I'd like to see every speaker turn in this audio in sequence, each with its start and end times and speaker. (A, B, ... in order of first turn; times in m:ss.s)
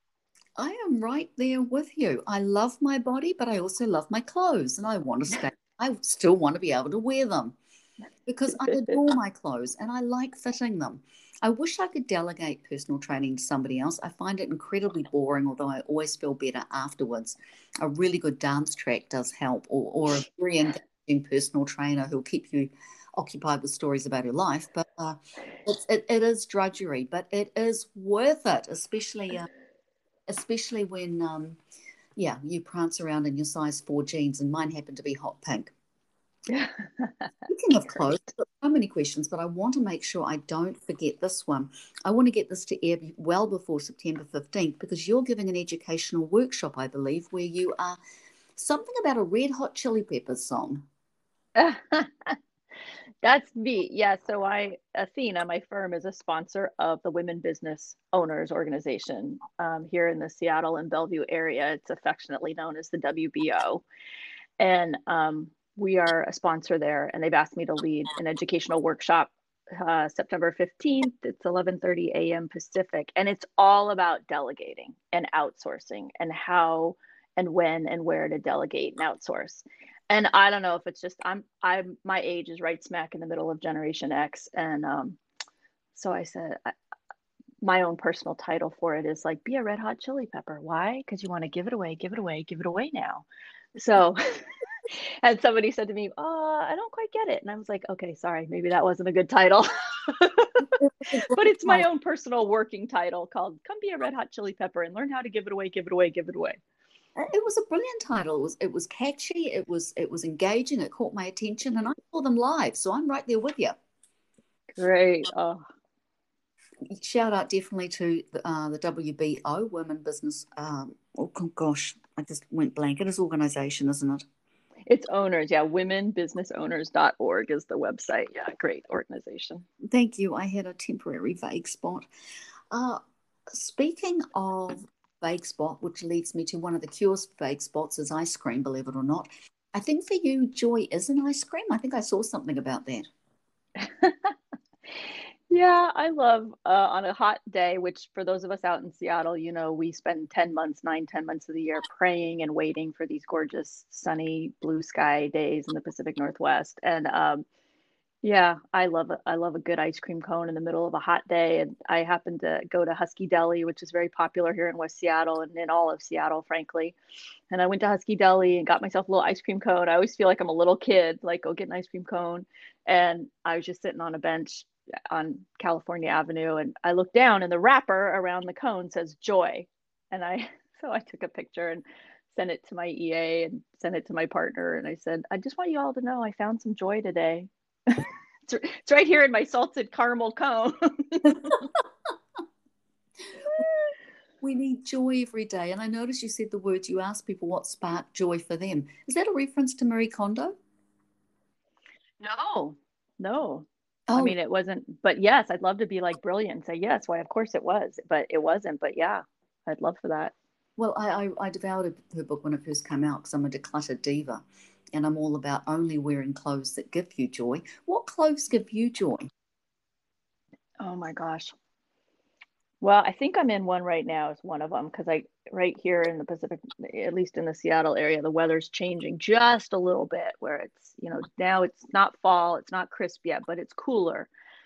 0:00.6-0:07.6 A
0:08.2-0:29.5 A
0:30.3-0:31.6 A
0:32.2-0:35.7 A
0:36.5-0:37.2 B
0:37.5-0:48.0 A
0:48.6-0:50.8 A
0:51.6-0:52.4 B
0:53.2-1:03.8 B
1:04.6-1:25.2 B
1:25.9-1:26.7 B
1:27.6-1:40.7 B
1:40.8-1:41.8 A
1:41.3-1:46.6 B
1:47.2-1:53.8 A
1:54.7-1:55.6 B
1:56.9-2:04.2 A
2:04.9-2:09.6 B
2:09.8-2:12.1 A
2:12.7-2:23.1 A
2:23.8-2:24.3 B
2:25.0-2:37.4 B
2:38.2-2:47.0 B
2:47.5-3:11.7 B
3:14.4-3:20.6 A
3:22.2-3:30.3 B
3:24.1-3:24.4 A
3:30.8-3:34.4 A
3:34.9-3:39.3 A
3:40.8-3:41.5 B
3:42.8-3:54.3 B